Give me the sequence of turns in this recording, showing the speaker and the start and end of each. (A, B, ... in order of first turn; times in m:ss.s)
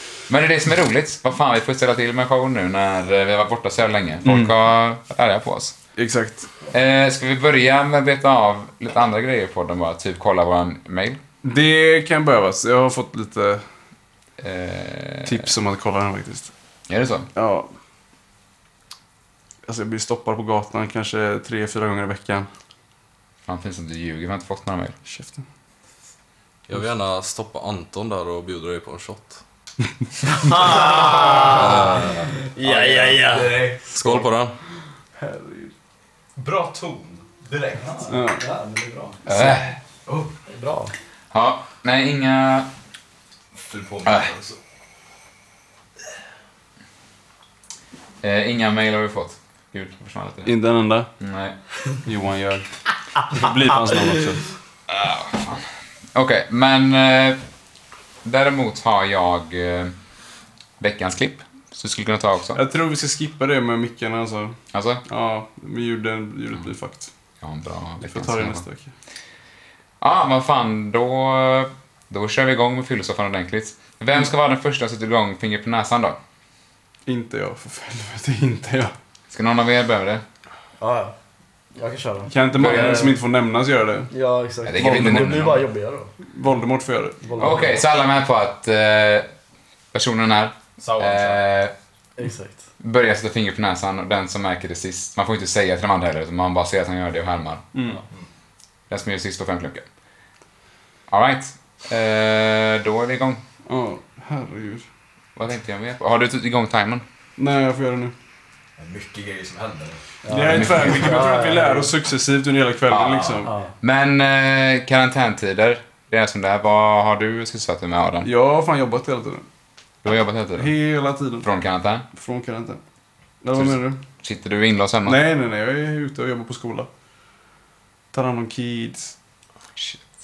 0:00.3-0:05.8 A
0:04.2-0:04.5 B
0:06.0-0:06.5 B
0:06.7-0:11.2 A
0:11.4-0:13.6 B
0:14.4-0:15.5 A
0:15.2-0:16.5 B
0:16.9-0:17.3 A
0:17.3-0:17.7 B
0:19.6-0:22.5 B
0:23.5-0:24.9 A
0:25.0-0:25.4 B
0:26.7-0:29.4 C
0:30.2-0:33.6 D
0:30.7-0:32.1 E
0:31.5-0:32.3 C
0:32.6-0:34.2 E
0:33.9-0:34.5 C
0:35.2-0:35.7 B
0:36.4-0:38.1 E
0:37.8-0:39.6 D
0:38.1-0:38.4 B
0:39.3-0:39.8 A
0:40.5-0:40.9 D
0:41.3-0:42.7 A
0:43.6-0:44.6 E
0:44.0-0:44.3 A
0:48.2-0:50.5 A
0:50.4-0:51.1 B
0:51.2-0:51.6 A
0:52.0-0:52.7 B
0:53.3-0:54.4 B
0:54.9-0:57.4 A
0:58.2-0:59.9 A
1:00.8-1:02.6 A
1:02.6-1:07.1 B
1:04.7-1:05.0 A
1:07.4-1:08.6 A
1:08.0-1:08.9 B
1:10.0-1:16.2 A
1:17.0-1:18.9 B
1:19.3-1:20.2 A
1:20.8-1:21.1 D
1:21.7-1:23.2 D
1:22.3-1:24.1 B
1:22.6-1:23.1 A
1:24.1-1:26.1 D
1:24.6-1:25.6 A
1:24.8-1:25.5 B
1:26.3-1:27.6 B
1:27.2-1:27.8 D
1:27.4-1:29.3 A
1:29.9-1:31.7 A
1:30.8-1:31.4 E
1:32.2-1:32.6 D
1:32.8-1:37.6 A
1:37.7-1:38.0 B
1:38.9-1:39.8 A
1:41.1-1:43.4 A
1:43.7-1:44.8 B
1:45.4-1:47.0 A
1:47.4-1:48.1 B
1:48.8-1:50.0 E
1:50.2-1:51.9 D
1:50.3-1:53.5 B
1:50.5-1:51.2 A
1:50.6-1:51.2 E
1:52.9-1:53.3 A
1:53.1-1:53.4 E
1:53.4-1:53.7 D
1:53.8-1:58.3 A
1:58.2-1:59.4 B
2:00.0-2:00.7 A
2:00.6-2:01.4 B
2:01.4-2:02.0 A
2:02.1-2:02.8 B
2:03.4-2:04.0 B
2:03.5-2:05.2 A
2:05.0-2:06.9 B
2:08.1-2:09.1 B